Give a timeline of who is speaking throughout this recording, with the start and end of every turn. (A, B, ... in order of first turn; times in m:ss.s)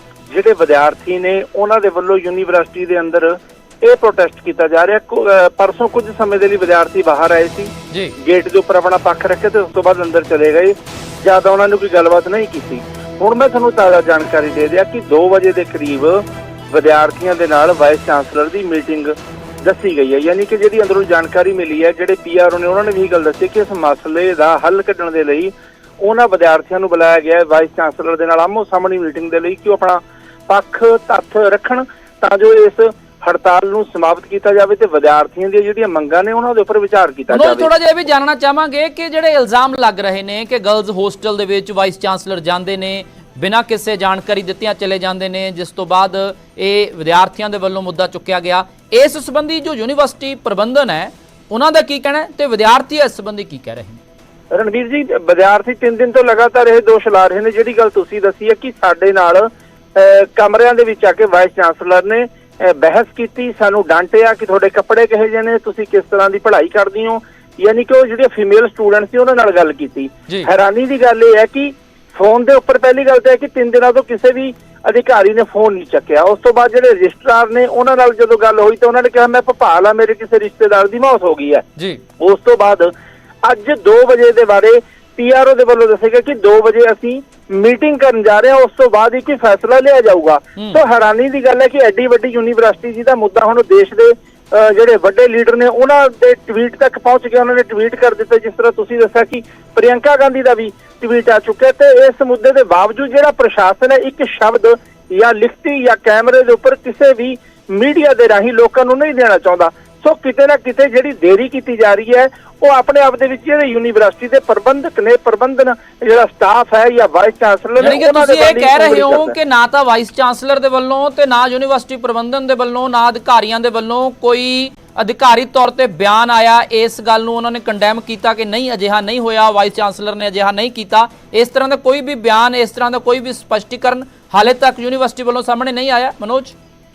0:00.3-0:37.7 A
0:07.9-0:08.2 B
0:37.3-0:54.0 B
0:54.5-1:21.6 A
1:21.8-1:22.0 B
1:22.2-1:22.9 A
1:23.4-1:59.4 A
1:57.8-2:16.6 B